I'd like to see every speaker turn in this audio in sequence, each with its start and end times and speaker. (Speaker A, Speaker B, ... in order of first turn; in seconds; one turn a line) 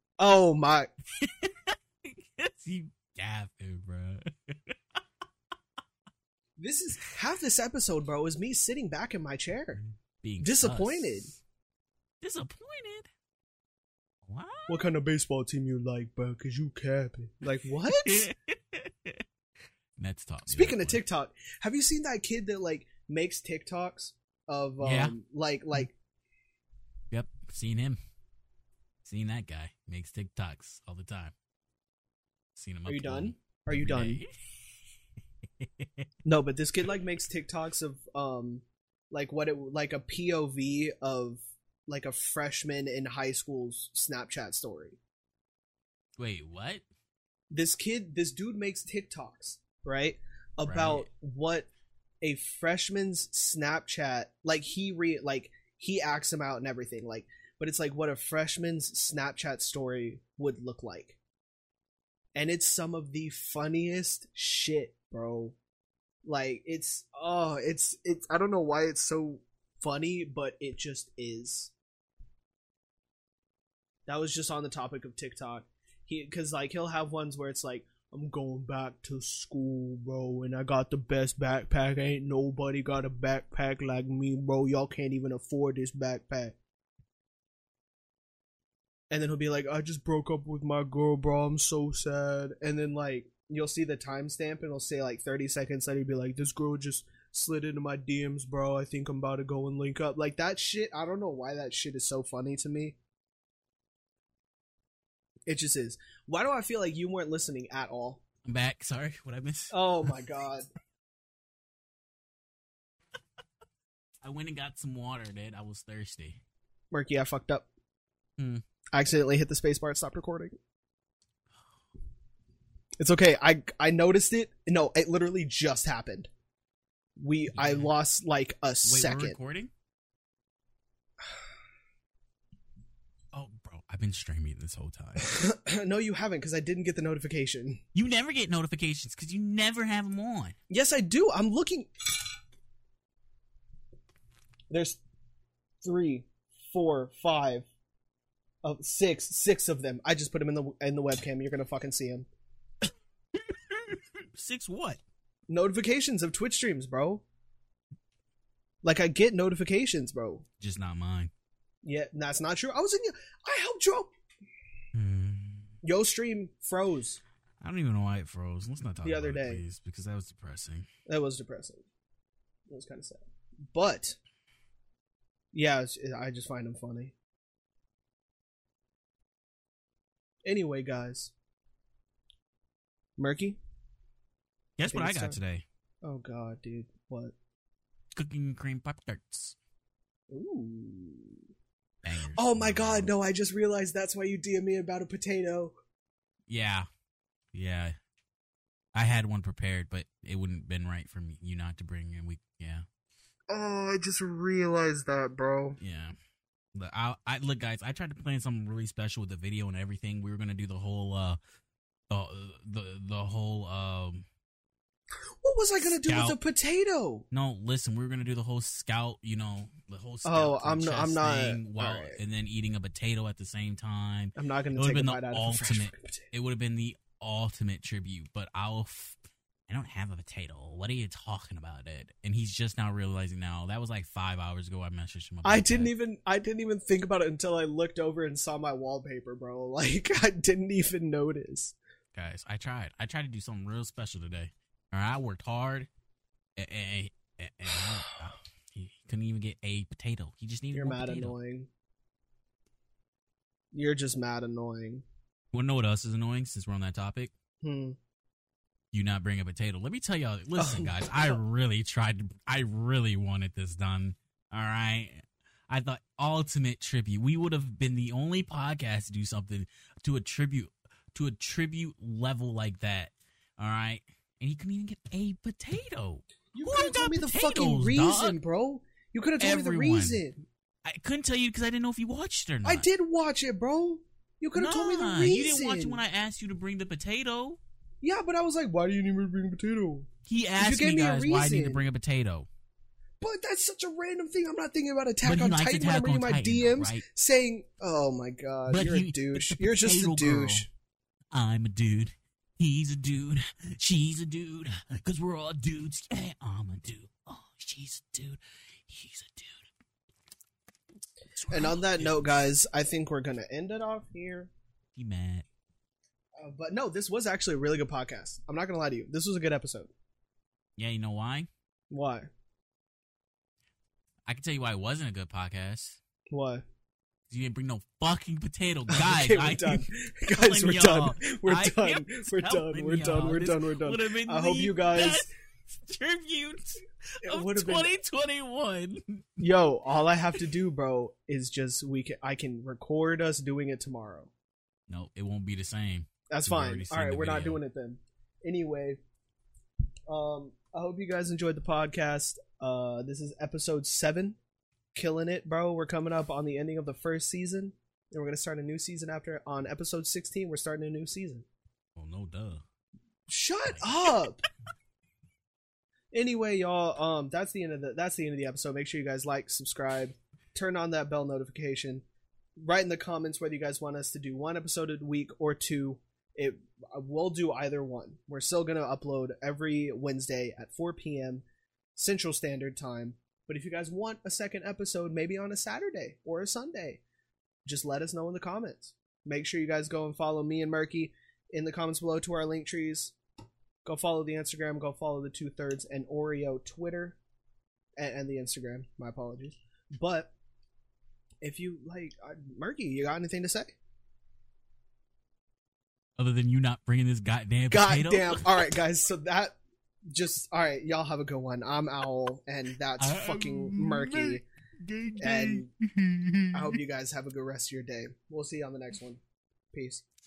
Speaker A: 0.2-0.9
Speaker B: 1.2-4.7
Speaker A: 6.6-9.8
Speaker B: 10.2-11.4
Speaker A: 10.4-11.3
Speaker B: 12.2-13.1
Speaker B: 14.3-14.8
Speaker A: 14.7-18.3
Speaker B: 17.9-19.2
Speaker B: 20.0-21.0
Speaker A: 20.5-25.9
Speaker B: 24.8-25.2
Speaker B: 27.1-28.0
Speaker B: 29.0-31.3
Speaker B: 32.5-34.3
Speaker A: 32.9-34.2
Speaker B: 35.6-36.0
Speaker A: 36.2-45.0
Speaker B: 46.2-46.8
Speaker A: 47.5-51.7
Speaker B: 50.6-51.1
Speaker A: 52.2-61.2
Speaker A: 62.3-65.6
Speaker A: 66.2-71.7
Speaker A: 74.0-86.5
Speaker A: 89.1-103.0
Speaker A: 105.5-108.2
Speaker B: 108.4-109.8
Speaker A: 109.7-110.7
Speaker B: 114.2-116.4
Speaker A: 116.9-117.7
Speaker B: 118.4-118.6
Speaker A: 118.9-120.6
Speaker A: 123.0-126.3
Speaker A: 127.2-129.3
Speaker B: 127.5-127.9
Speaker B: 128.8-129.7
Speaker B: 133.3-135.3
Speaker A: 135.2-137.8
Speaker B: 137.9-140.5
Speaker A: 140.7-141.9
Speaker A: 144.7-145.0
Speaker A: 145.8-147.7
Speaker A: 148.6-152.3
Speaker B: 153.3-155.0
Speaker A: 155.5-157.2
Speaker A: 158.8-160.4
Speaker B: 160.6-161.3
Speaker A: 161.8-164.1
Speaker B: 164.9-165.7
Speaker A: 165.8-167.2
Speaker B: 167.6-170.9
Speaker A: 169.0-169.6
Speaker A: 171.1-171.8
Speaker A: 172.7-173.2
Speaker A: 173.7-174.2
Speaker A: 175.5-177.1
Speaker A: 180.4-181.3
Speaker A: 183.2-183.6
Speaker B: 184.8-185.6
Speaker A: 184.9-185.4
Speaker A: 186.0-187.3
Speaker B: 188.1-189.6
Speaker A: 190.3-191.4
Speaker B: 192.0-193.1
Speaker A: 192.3-195.7
Speaker B: 196.5-196.9
Speaker B: 197.5-197.9
Speaker B: 198.9-202.8
Speaker A: 203.5-205.8
Speaker B: 205.8-206.2
Speaker B: 206.7-211.4
Speaker B: 212.1-214.2
Speaker A: 215.4-217.2
Speaker B: 216.0-216.4
Speaker B: 217.3-235.9
Speaker A: 220.2-222.2
Speaker A: 224.3-226.3
Speaker A: 235.4-241.7
Speaker B: 242.1-245.9
Speaker B: 246.6-251.3
Speaker A: 250.7-251.7
Speaker A: 253.7-255.0
Speaker B: 255.5-257.3
Speaker A: 257.6-258.0
Speaker B: 258.9-278.4
Speaker A: 260.6-261.4
Speaker A: 276.5-280.4
Speaker B: 279.4-280.2
Speaker B: 280.8-282.9
Speaker A: 282.6-286.0
Speaker B: 284.5-287.6
Speaker A: 288.0-291.8
Speaker B: 290.2-292.5
Speaker A: 293.2-300.7
Speaker B: 295.2-297.0
Speaker B: 298.7-300.7
Speaker B: 301.3-309.6
Speaker B: 311.3-312.5
Speaker A: 311.5-314.5
Speaker B: 314.9-315.4
Speaker A: 316.4-319.9
Speaker B: 320.8-321.5
Speaker A: 321.9-322.3
Speaker B: 324.3-326.0
Speaker A: 326.3-326.6
Speaker B: 327.3-339.4
Speaker A: 328.9-335.3
Speaker A: 337.2-337.9
Speaker A: 339.4-344.3
Speaker B: 344.9-347.6
Speaker A: 346.3-349.0
Speaker A: 350.1-354.4
Speaker A: 354.9-361.4
Speaker B: 361.9-362.6
Speaker A: 363.3-364.4
Speaker A: 366.1-372.0
Speaker A: 372.6-381.4
Speaker A: 381.9-387.0
Speaker A: 387.6-393.1
Speaker A: 393.8-397.2
Speaker A: 398.0-400.3
Speaker A: 401.4-403.8
Speaker B: 406.2-408.6
Speaker A: 407.7-414.4
Speaker B: 413.0-416.8
Speaker A: 415.2-415.7
Speaker A: 416.5-419.2
Speaker A: 419.7-420.0